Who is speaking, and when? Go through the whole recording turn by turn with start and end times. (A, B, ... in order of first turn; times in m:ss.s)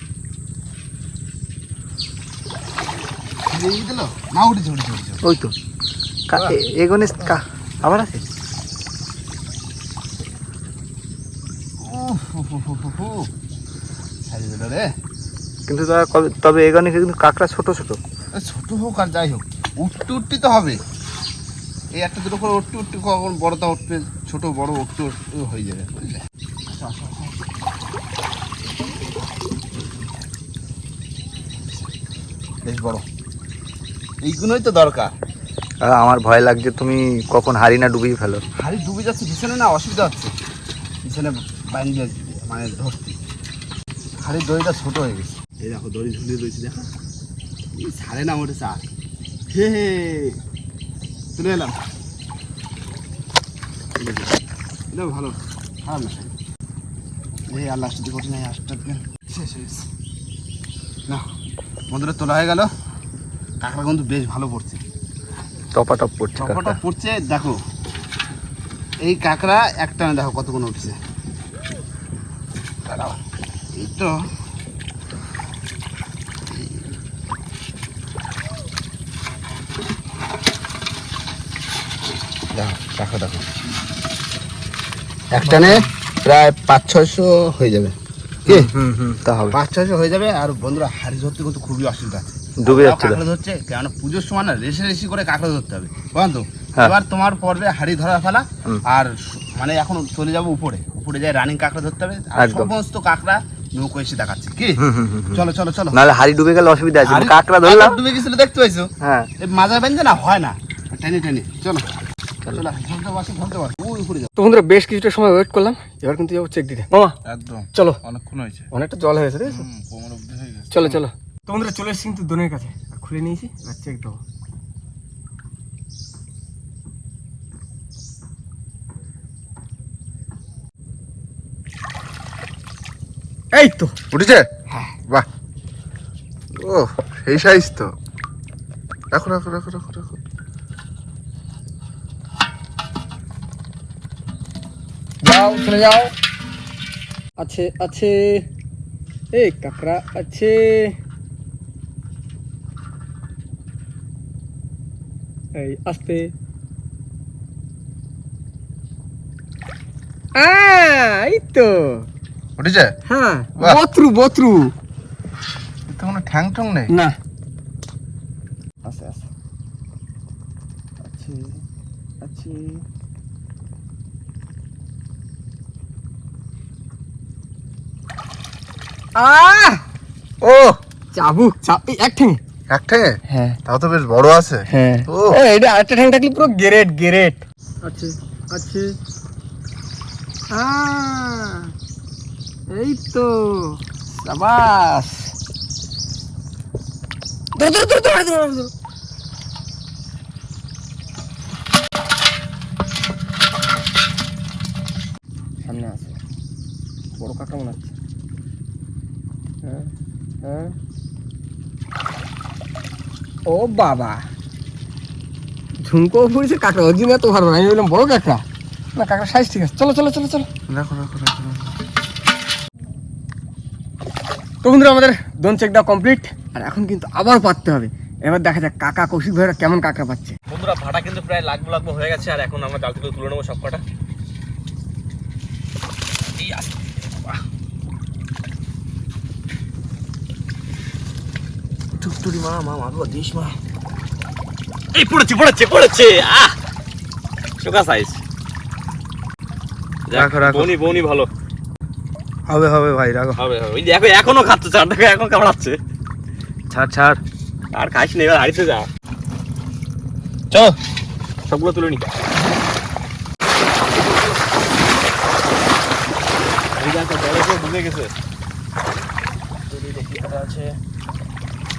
0:03.5-0:05.2 A
0:05.2-0:05.5 B
0:06.3-0:08.2 B
0:11.8-0:13.3 A
0:14.2-0:14.9 A
0:15.7-0:18.0 B
0:18.3-0:20.8 A
0:21.9-0:27.4 A
0:32.6-0:33.0 A
0:34.2-0:35.1 A
0:35.8-0:38.4 B
0:38.6-0:40.3 A
0:41.0-0:43.2 A
0:44.2-0:46.8 A
0:47.8-0:48.8 A
0:49.5-0:50.4 A
0:51.4-0:51.8 A
0:54.0-0:54.4 A
0:54.9-0:56.3 A
0:57.5-0:59.9 A
1:01.9-1:02.7 A
1:03.6-1:04.8 A
1:05.7-1:06.8 B
1:06.4-1:07.6 A
1:09.0-1:11.0 A
1:12.8-1:13.2 A
1:13.8-1:14.2 A
1:22.5-1:23.4 A
1:25.3-1:27.9 A
1:25.4-1:25.8 B
1:28.4-1:28.7 A
1:28.5-1:29.6 B
1:29.5-1:44.8 A
1:32.6-1:33.2 B
1:42.4-1:42.7 B
1:44.8-1:48.0 B
1:45.3-1:46.0 A
1:47.0-1:51.8 A
1:49.0-1:49.3 B
1:52.4-1:54.3 A
1:54.4-1:57.1 C
1:57.2-1:58.6 D
1:57.7-1:58.0 C
1:58.7-1:59.6 C
1:59.5-2:00.9 D
2:00.2-2:00.6 A
2:00.7-2:04.2 C
2:13.5-2:13.9 C
2:14.1-2:14.5 D
2:16.6-2:17.9 D
2:19.1-2:20.2 D
2:25.2-2:26.1 C
2:27.4-2:28.4 C
2:29.3-2:31.0 C
2:35.6-2:36.3 C
2:40.4-2:42.1 C
2:42.6-2:42.9 D
2:43.1-2:44.7 C
2:45.9-2:46.9 D
2:46.9-2:47.1 C
2:48.8-2:49.3 C
2:51.0-2:51.6 C
2:52.2-2:52.8 C
2:59.2-2:59.8 C
3:00.4-3:00.7 B
3:01.1-3:02.4 C
3:02.7-3:03.1 D
3:03.3-3:03.6 C
3:03.6-3:05.4 D
3:04.7-3:08.9 C
3:10.5-3:11.7 C
3:12.7-3:15.3 C
3:17.6-3:18.7 C
3:25.6-3:26.2 C
3:27.2-3:27.9 C
3:29.6-3:29.9 C
3:30.4-3:30.7 C
3:33.5-3:34.2 C
3:35.8-3:38.4 C
3:39.0-3:40.5 C
3:40.7-3:41.7 B
3:44.6-3:50.4 C
3:50.5-3:53.8 E
3:56.4-3:57.4 E
4:02.0-4:03.5 E
4:04.9-4:06.5 E
4:07.6-4:08.2 E
4:10.1-4:11.3 E
4:10.1-4:10.8 B
4:12.5-4:13.4 B
4:13.4-4:15.8 E
4:16.7-4:17.2 B
4:17.7-4:18.9 E
4:21.4-4:22.0 E
4:26.8-4:28.1 E
4:29.7-4:30.7 E